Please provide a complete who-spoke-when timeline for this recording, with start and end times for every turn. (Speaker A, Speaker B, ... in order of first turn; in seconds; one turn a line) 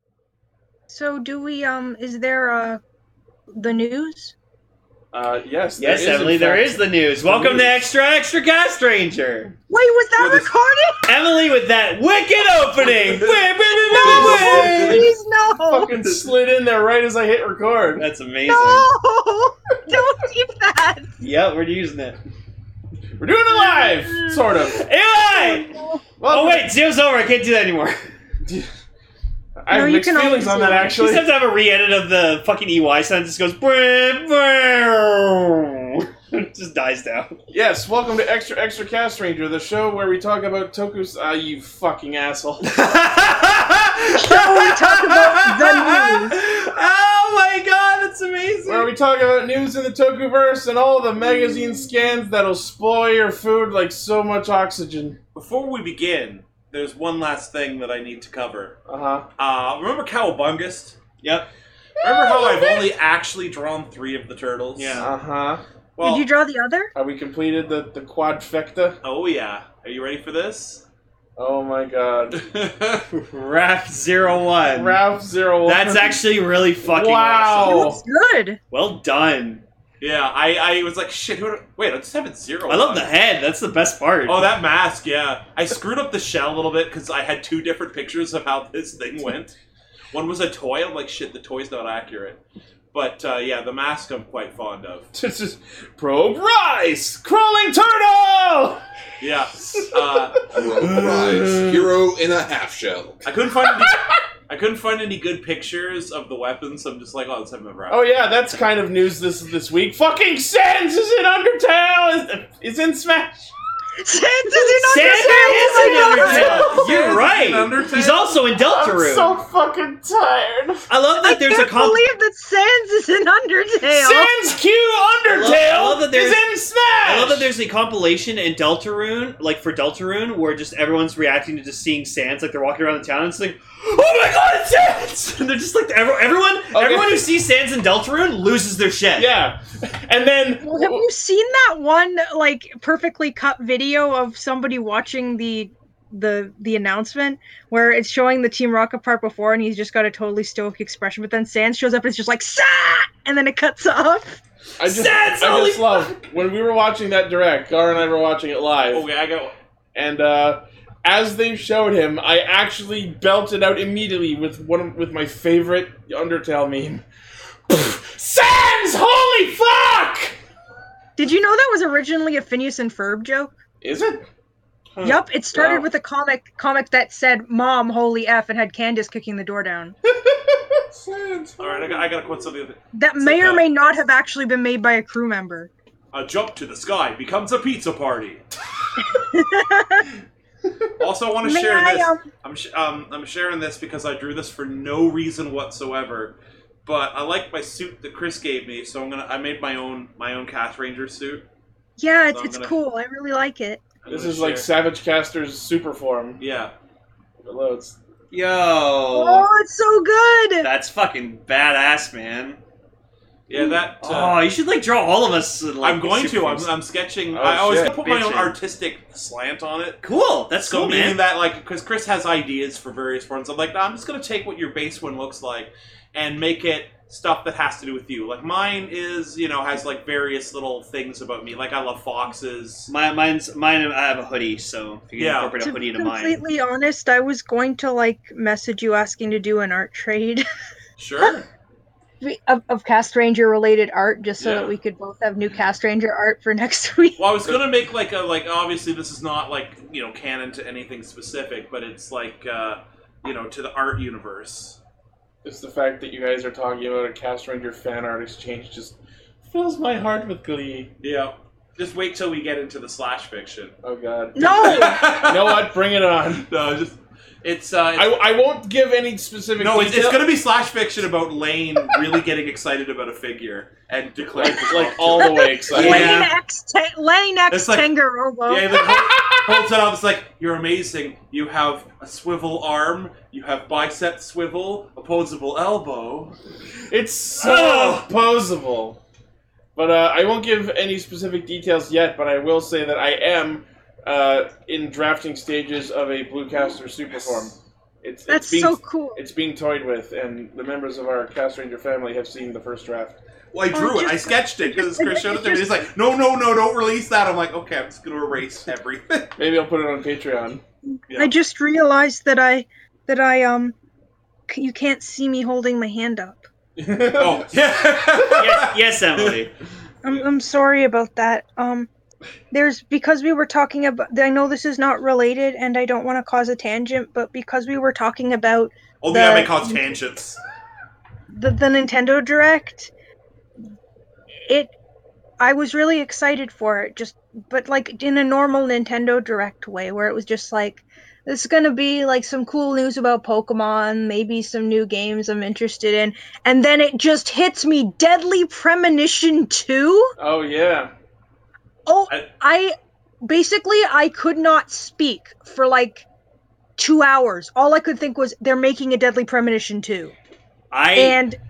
Speaker A: 0.9-2.8
Speaker A: 3.5-4.3
Speaker B: 5.1-7.9
Speaker C: 5.8-9.5
Speaker A: 9.7-11.1
Speaker D: 10.2-10.5
Speaker C: 11.1-15.1
Speaker D: 12.8-15.1
Speaker A: 13.8-15.9
Speaker B: 14.2-15.0
Speaker B: 15.6-18.1
Speaker C: 18.0-18.9
Speaker A: 18.5-21.2
Speaker C: 21.2-22.2
Speaker B: 23.2-24.9
Speaker A: 23.5-24.4
Speaker C: 24.6-25.7
Speaker A: 25.3-26.0
Speaker B: 26.2-26.7
Speaker C: 26.3-28.0
Speaker B: 28.4-28.7
Speaker B: 29.6-31.3
Speaker A: 29.7-30.9
Speaker C: 30.6-37.4
Speaker B: 37.5-42.9
Speaker C: 42.8-48.9
Speaker A: 44.1-46.4
Speaker B: 48.7-55.2
Speaker D: 55.3-58.8
Speaker B: 58.9-59.3
Speaker D: 59.4-61.0
Speaker C: 61.2-61.5
Speaker D: 62.0-65.1
Speaker A: 62.0-62.9
Speaker C: 64.8-65.1
Speaker B: 65.0-65.6
Speaker D: 66.0-66.3
Speaker A: 66.0-66.9
Speaker B: 67.0-69.0
Speaker D: 69.0-70.8
Speaker B: 71.4-72.4
Speaker D: 72.3-73.1
Speaker C: 73.1-75.0
Speaker B: 74.7-76.2
Speaker C: 75.7-77.9
Speaker B: 76.8-78.0
Speaker A: 77.6-78.6
Speaker C: 78.7-79.6
Speaker D: 80.0-83.1
Speaker C: 82.7-84.5
Speaker D: 84.3-89.6
Speaker D: 90.1-92.4
Speaker D: 92.9-95.1
Speaker B: 95.1-98.8
Speaker D: 99.2-100.5
Speaker B: 99.7-101.9
Speaker E: 100.5-103.2
Speaker D: 103.2-108.1
Speaker B: 107.9-113.5
Speaker A: 114.0-116.7
Speaker C: 114.7-119.3
Speaker B: 114.9-117.2
Speaker D: 116.1-118.4
Speaker B: 118.5-120.9
Speaker C: 120.9-122.0
Speaker A: 121.2-124.3
Speaker B: 123.9-127.5
Speaker C: 125.3-126.4
Speaker C: 127.0-139.3
Speaker B: 136.7-137.3
Speaker B: 139.2-141.1
Speaker A: 140.6-154.4
Speaker B: 154.8-159.1
Speaker C: 154.8-156.2
Speaker D: 158.9-159.6
Speaker B: 159.9-167.1
Speaker B: 167.7-170.4
Speaker A: 171.2-173.5
Speaker B: 173.8-174.2
Speaker A: 175.0-180.0
Speaker B: 175.6-175.8
Speaker E: 180.9-182.4
Speaker D: 181.6-183.6
Speaker A: 182.9-185.7
Speaker D: 186.1-188.4
Speaker A: 189.0-190.1
Speaker D: 191.0-201.4
Speaker A: 191.4-192.2
Speaker A: 202.0-203.8
Speaker D: 202.3-202.7
Speaker D: 204.0-204.7
Speaker B: 204.1-206.4
Speaker D: 206.4-206.7
Speaker B: 207.4-208.0
Speaker C: 208.3-209.5
Speaker A: 209.1-210.7
Speaker C: 210.6-212.6
Speaker D: 213.5-214.4
Speaker A: 213.5-213.8
Speaker C: 214.0-216.7
Speaker D: 215.8-220.0
Speaker B: 217.3-218.5
Speaker C: 220.0-221.2
Speaker D: 220.6-232.9
Speaker C: 232.9-236.4
Speaker D: 235.2-235.6
Speaker A: 235.6-240.4
Speaker D: 241.0-241.5
Speaker A: 242.2-247.2
Speaker D: 244.4-244.7
Speaker D: 247.2-254.8
Speaker B: 255.4-260.9
Speaker D: 261.0-263.7
Speaker B: 263.8-266.5
Speaker A: 264.4-265.2
Speaker D: 264.4-265.7
Speaker D: 266.4-268.2
Speaker B: 267.9-270.3
Speaker D: 269.6-276.3
Speaker B: 274.4-276.2
Speaker A: 275.2-278.8
Speaker D: 277.5-277.9
Speaker D: 278.5-286.4
Speaker B: 278.8-279.6
Speaker B: 286.9-289.0
Speaker C: 287.4-288.1
Speaker B: 289.8-303.2
Speaker D: 297.2-297.5
Speaker A: 298.3-299.2
Speaker D: 303.5-309.4
Speaker A: 303.7-305.8
Speaker B: 309.4-310.6
Speaker A: 311.1-313.8
Speaker A: 314.5-316.5
Speaker B: 316.8-317.5
Speaker D: 317.2-319.4
Speaker C: 318.4-319.5
Speaker A: 320.0-321.9
Speaker A: 322.5-329.9
Speaker D: 329.0-330.4
Speaker A: 331.3-332.9
Speaker A: 334.5-334.7
Speaker A: 335.4-350.1
Speaker B: 350.2-350.9
Speaker A: 351.9-356.0
Speaker A: 356.8-360.1
Speaker C: 360.7-361.2
Speaker A: 360.9-361.4